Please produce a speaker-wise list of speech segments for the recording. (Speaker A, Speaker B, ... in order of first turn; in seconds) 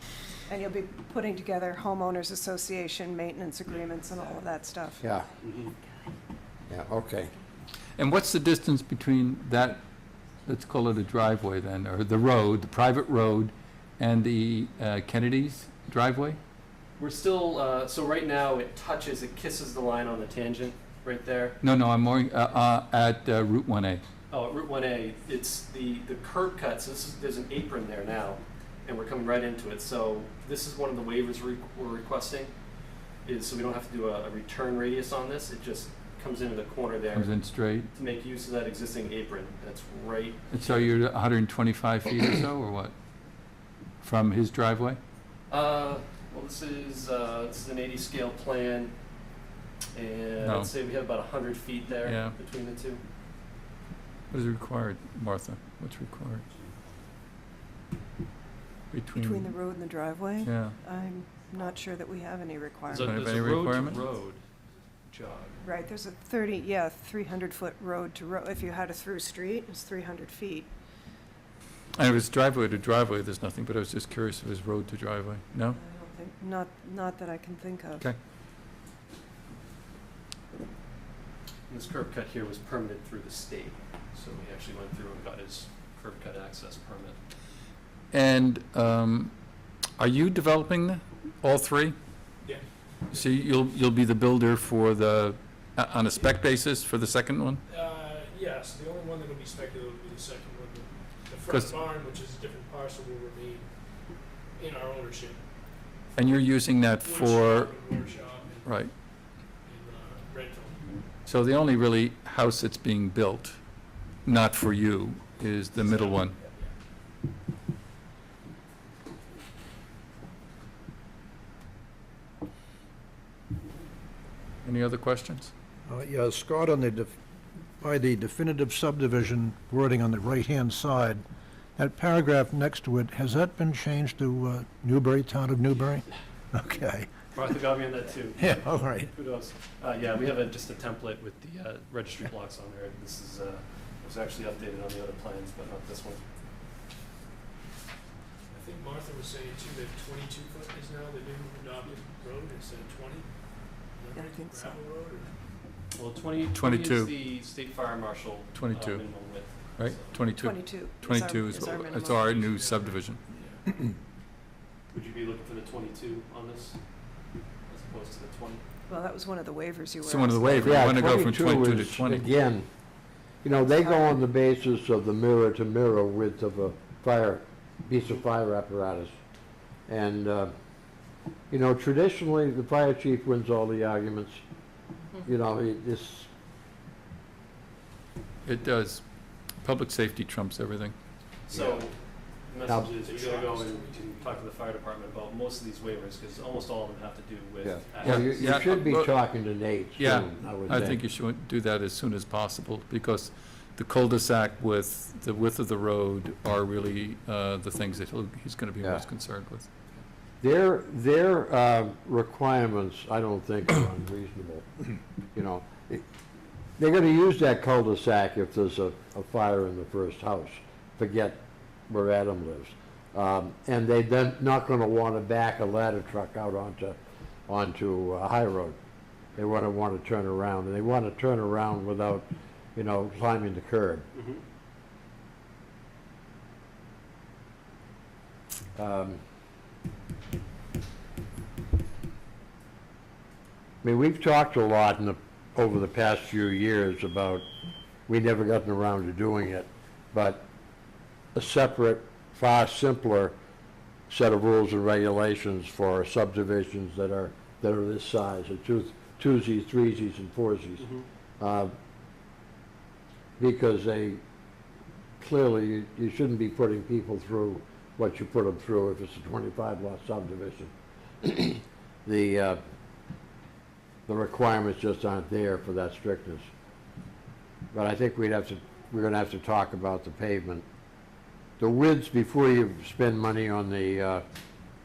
Speaker A: 0.5-5.0, 59.2-63.1, 65.6-70.7, 75.7-78.0, 154.2-154.8, 160.3-162.3, 168.9-171.0, 173.6-174.1
Speaker B: 5.0-5.3, 6.7-7.3, 170.5-172.7, 173.4-179.1, 179.9-180.5, 181.5-184.4, 185.2-186.3, 191.5-191.8, 197.6-201.0, 210.4-214.7, 215.3-216.0, 216.8-227.0, 227.5-228.8, 229.4-234.1, 238.8-239.2, 243.8-247.5, 248.1-250.5, 251.3-253.3, 254.1-260.9, 261.4-261.7, 263.4-264.2, 265.2-272.6, 274.1-276.5, 277.7-280.6, 281.6-284.2
Speaker C: 5.4-5.7, 17.0-21.6, 24.3-32.5, 33.2-37.4, 37.9-40.9, 45.5-48.9, 49.9-53.0, 62.9-64.4, 65.1-65.6, 81.7-87.2, 137.3-146.2, 155.9-160.2, 164.9-166.8, 167.7-168.6, 191.5-192.0, 192.5-198.8, 234.2-234.4, 260.8-261.1
Speaker D: 8.0-9.8, 10.4-16.4, 21.6-24.0, 37.1-37.9, 40.5-42.9, 44.0-45.0, 50.4-50.7, 52.0-52.4, 54.3-56.5, 58.9-59.5, 60.4-60.8, 62.9-64.0, 72.0-75.8, 88.1-89.3, 90.0-92.0, 93.1-97.6, 101.5-101.8, 106.2-107.8, 108.7-108.9, 111.2-113.6, 114.2-116.4, 124.6-125.5, 156.5-157.1, 158.5-159.1, 159.8-163.2, 170.0-172.3, 188.4-189.0, 189.6-190.9, 198.0-199.1, 200.0-209.7
Speaker E: 97.7-103.7, 104.6-105.4, 107.0-108.7, 109.7-110.9, 148.5-153.3, 153.9-155.3, 162.5-162.8, 193.0-194.2
Speaker F: 125.9-127.2, 127.8-131.2, 131.8-137.1, 138.4-139.1